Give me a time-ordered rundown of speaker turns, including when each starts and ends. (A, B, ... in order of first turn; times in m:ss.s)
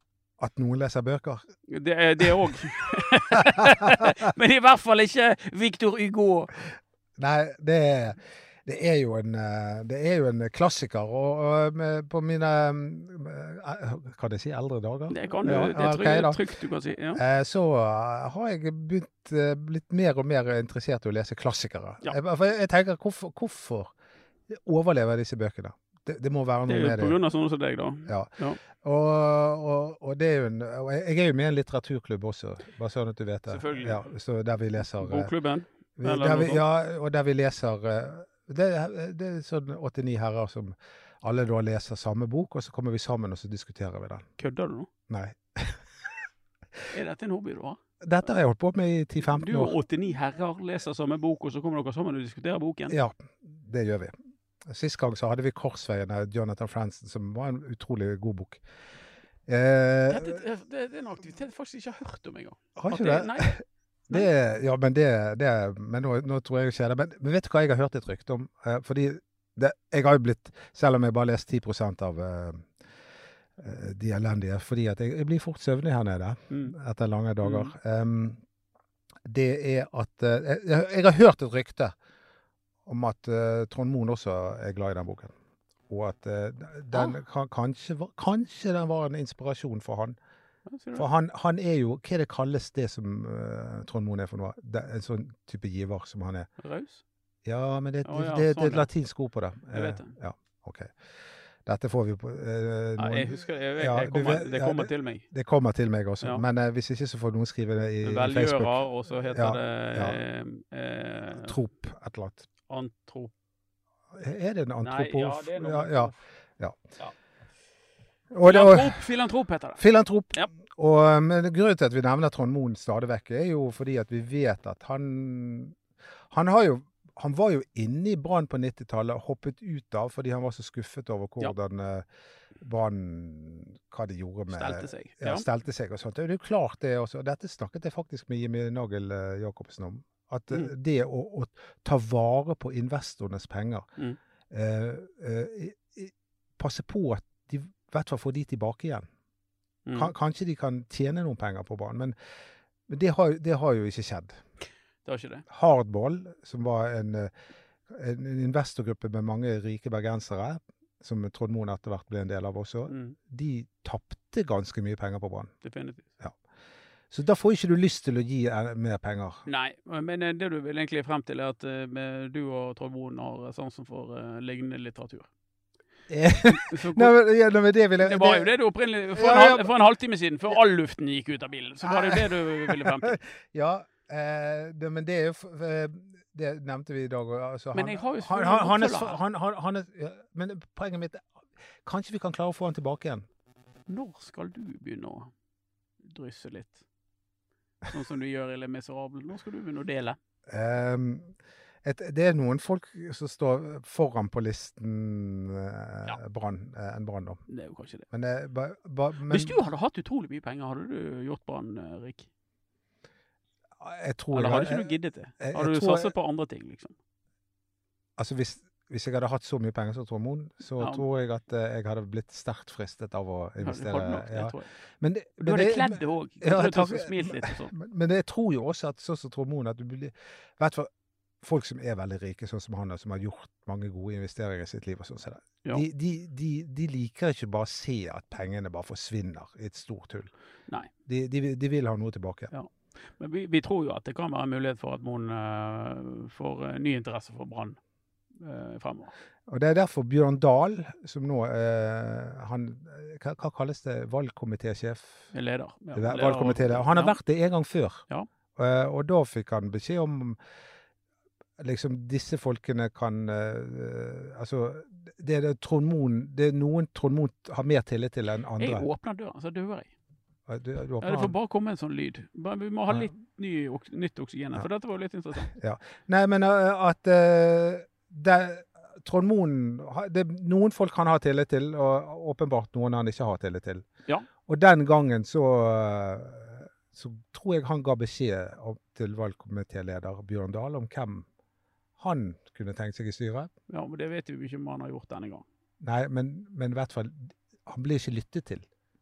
0:00.4-0:01.4 A
0:01.7-0:06.6 B
0:03.6-0:04.1 A
0:07.2-0:16.4 A
0:15.1-0:17.2 B
0:17.1-0:23.9 A
0:24.5-0:27.2 A
0:26.7-0:28.6 B
0:28.1-0:35.3 A
0:33.5-0:34.1 B
0:35.0-0:36.6 B
0:36.0-0:44.2 A
0:44.4-0:44.9 B
0:45.1-0:45.8 A
0:46.9-0:47.8 B
0:48.0-0:49.7 A
0:49.2-0:53.0 B
0:52.9-0:54.1 A
0:54.6-0:58.6 A
0:59.5-1:00.4 A
1:00.1-1:03.6 B
1:02.8-1:12.7 A
1:13.6-1:18.4 A
1:16.5-1:16.7 B
1:17.4-1:17.7 B
1:19.2-1:21.9 A
1:22.8-1:25.3 A
1:25.9-1:30.2 A
1:30.7-1:31.1 B
1:30.9-1:36.5 A
1:36.6-1:37.0 B
1:37.4-1:41.0 A
1:38.0-1:38.9 B
1:39.7-1:40.2 B
1:41.6-1:48.7 A
1:43.0-1:45.2 B
1:48.0-1:51.6 B
1:49.3-1:50.2 A
1:51.3-1:52.5 A
1:52.7-1:53.3 B
1:54.1-1:56.8 A
1:54.8-1:56.1 B
1:58.3-1:59.0 A
1:58.4-1:59.8 B
1:59.8-2:05.8 A
2:06.3-2:12.0 A
2:12.6-2:23.8 A
2:14.5-2:15.4 B
2:24.5-2:29.1 A
2:29.8-2:30.1 B
2:29.9-2:32.1 A
2:32.9-2:34.4 A
2:35.0-2:35.4 B
2:35.5-2:37.3 A
2:37.9-2:45.5 A
2:42.9-2:43.2 B
2:45.6-2:46.1 B
2:47.1-2:49.4 A
2:49.4-2:55.3 B
2:56.1-2:58.5 A
2:56.5-2:57.1 B
2:58.0-3:03.2 B
2:59.2-2:59.7 A
3:01.8-3:11.3 A
3:07.7-3:09.2 B
3:11.8-3:13.2 A
3:13.9-3:15.3 B
3:16.1-3:16.8 B
3:17.8-3:20.2 B
3:20.5-3:27.4 A
3:27.5-3:28.0 B
3:28.1-3:29.6 A
3:29.3-3:32.3 B
3:33.8-3:34.9 A
3:34.3-3:36.9 B
3:35.4-3:36.1 A
3:38.2-3:50.9 A
3:40.8-3:41.0 B
3:43.6-3:44.7 B
3:45.4-3:47.7 B
3:51.4-4:00.3 A
4:01.0-4:02.5 A
4:02.5-4:07.8 B
4:08.4-4:09.1 B
4:09.5-4:15.2 A
4:15.3-4:17.2 B
4:15.9-4:18.0 A
4:18.6-4:20.4 A
4:21.6-4:28.8 A
4:28.6-4:29.9 B
4:30.5-4:31.3 A
4:31.0-4:35.5 B
4:35.5-4:43.8 A
4:44.4-4:51.2 A
4:52.0-4:53.5 A
4:53.7-4:55.4 B
4:55.8-4:58.7 A